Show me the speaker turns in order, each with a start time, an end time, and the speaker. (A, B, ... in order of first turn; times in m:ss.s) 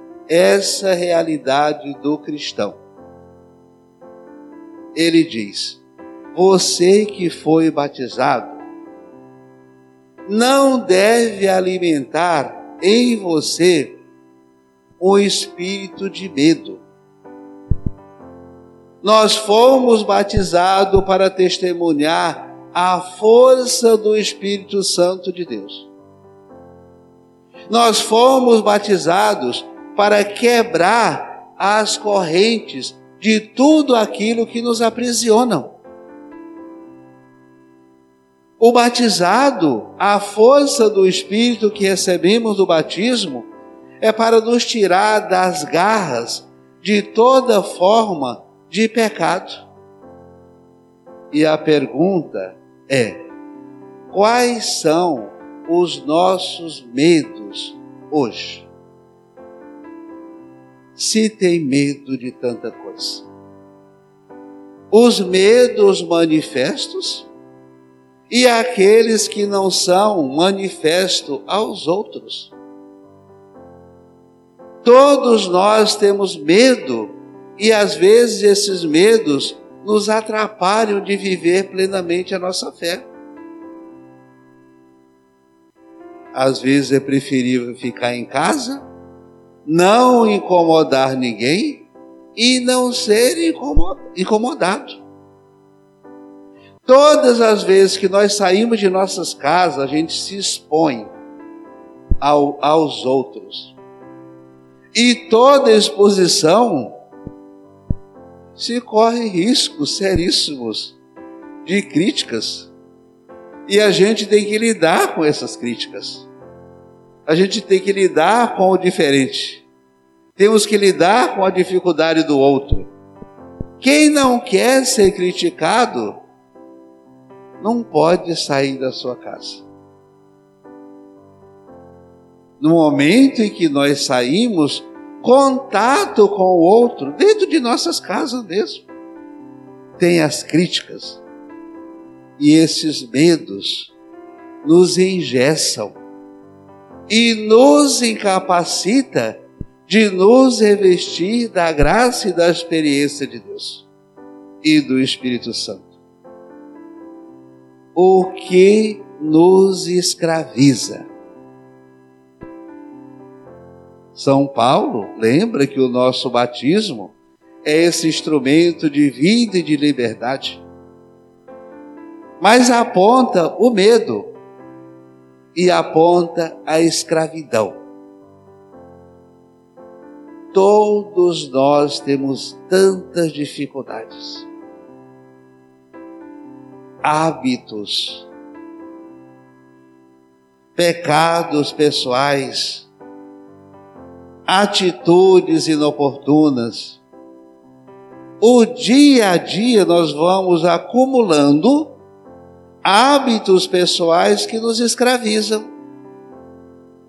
0:00.3-0:02.8 A
0:04.9-0:05.8 A
0:06.3-0:08.6 A
0:10.2-0:14.0 A
0:15.0-0:16.8 A
0:19.0-0:25.9 A
0:27.7-0:35.8 A
0:38.6-0:43.5 A
0:44.0-0:49.6 A
0:51.3-0:53.2 A
0:54.1-0:58.7 A
1:00.9-1:03.3 A
1:04.9-1:07.3 A
1:08.3-1:12.5 A
1:14.8-1:23.1 A
1:26.3-1:28.8 A
1:29.6-1:35.0 A
1:36.8-1:41.1 A
1:42.2-1:43.8 A
1:44.9-1:47.0 A
1:48.6-1:51.0 A
1:51.6-1:52.7 A
1:53.7-1:56.3 A
1:57.3-1:59.6 A
2:00.4-2:02.9 A
2:03.8-2:06.2 A
2:07.6-2:09.7 A
2:12.6-2:18.9 A
2:20.0-2:21.2 A
2:22.4-2:23.9 A
2:24.6-2:26.0 A
2:27.1-2:33.8 A
2:34.6-2:36.0 A
2:37.9-2:41.1 A
2:44.1-2:50.6 A
2:52.4-2:54.3 A
2:55.5-2:57.8 A
3:00.5-3:04.5 A
3:07.0-3:08.3 A
3:10.7-3:12.9 A
3:14.4-3:17.0 A
3:18.4-3:22.0 A
3:22.8-3:25.7 A